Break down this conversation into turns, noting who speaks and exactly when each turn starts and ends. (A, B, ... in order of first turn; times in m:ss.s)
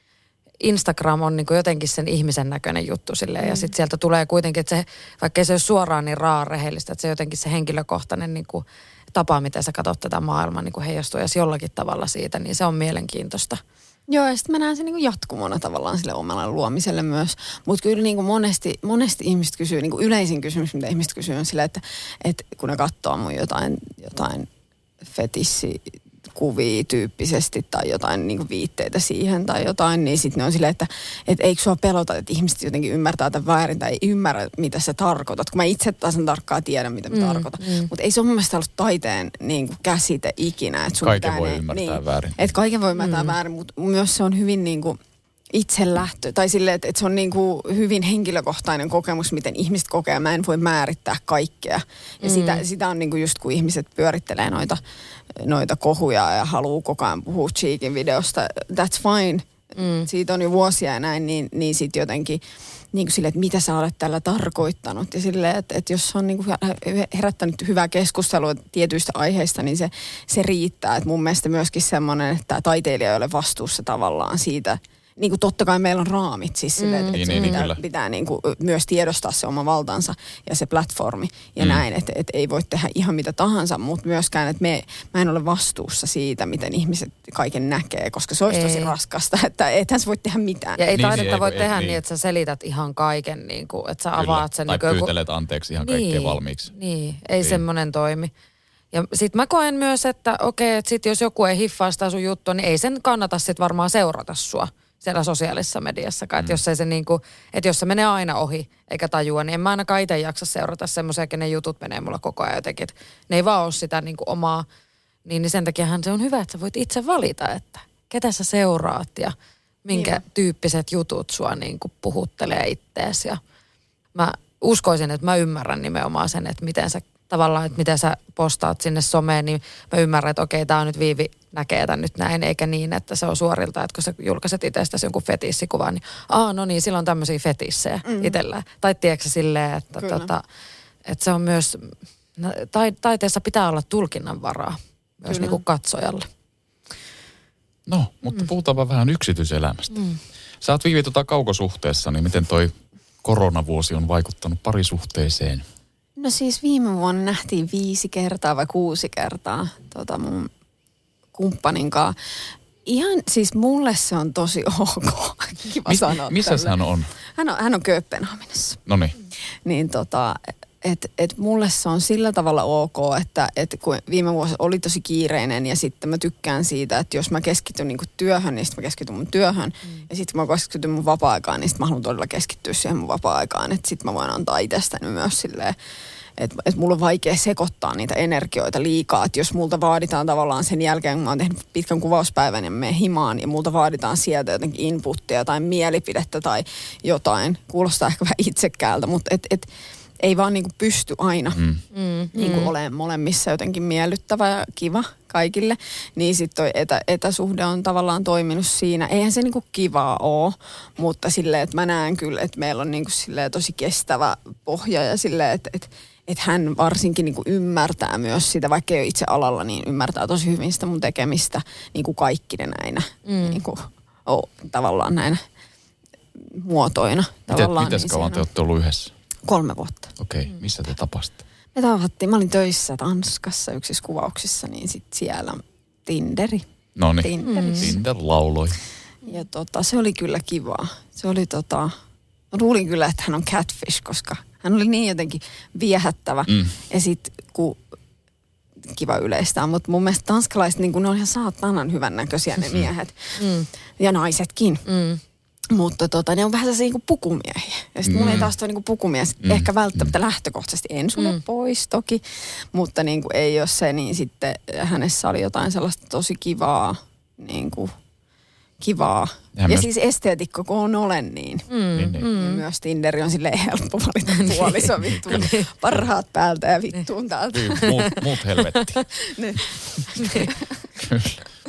0:00.6-0:13.6 A
0:03.4-0:03.7 B
0:14.1-0:24.5 B
0:25.0-0:25.8 B
0:26.3-0:45.0 B
0:37.1-0:37.9 A
0:41.0-0:42.5 C
0:43.0-0:43.4 A
0:45.5-0:54.8 B
0:52.2-0:52.6 A
0:55.4-0:59.5 B
0:59.8-1:00.1 A
1:00.0-1:31.2 B
1:16.8-1:17.6 A
1:17.1-1:17.8 C
1:21.6-1:21.8 C
1:28.5-1:28.9 A
1:30.8-1:35.1 A
1:30.9-1:32.0 C
1:34.2-1:36.7 C
1:35.8-1:38.3 A
1:38.9-1:54.6 A
1:55.2-2:03.4 A
1:59.9-2:00.2 B
2:04.1-2:20.4 A
2:18.0-2:18.4 B
2:20.0-2:20.3 B
2:21.0-2:26.3 A
2:25.3-2:25.6 B
2:27.9-2:30.0 C
2:29.9-2:30.2 A
2:30.6-2:35.6 C
2:36.2-2:40.5 B
2:41.3-2:42.1 B
2:42.8-2:46.8 B
2:45.8-2:47.1 C
2:47.4-2:48.8 B
2:48.9-2:49.2 C
2:49.6-3:05.8 B
3:06.4-3:19.7 B
3:20.2-3:21.6 B
3:21.5-3:21.8 C
3:21.9-3:22.7 A
3:22.3-3:45.4 B
3:43.3-3:43.6 A
3:46.4-3:48.4 B
3:47.5-3:49.1 C
3:49.4-3:50.1 B
3:50.2-3:51.4 C
3:51.7-3:56.6 B
3:57.0-3:58.8 C
3:57.2-3:58.0 B
3:57.4-3:57.9 A
3:59.2-4:01.9 B
4:02.5-4:07.8 B
4:06.5-4:06.8 C
4:08.8-4:13.4 B
4:13.4-4:13.7 A
4:14.0-4:14.8 B
4:14.9-4:15.2 A
4:15.7-4:27.9 B
4:18.0-4:18.5 C
4:19.4-4:20.1 C
4:28.8-4:37.9 B
4:29.6-4:29.9 C
4:31.7-4:32.6 A
4:32.0-4:32.3 C
4:34.4-4:35.6 A
4:35.2-4:36.0 C
4:37.5-4:39.0 C
4:37.7-4:38.1 A
4:38.7-4:39.0 A
4:39.3-4:40.6 B
4:40.2-4:40.5 A
4:41.0-4:41.4 C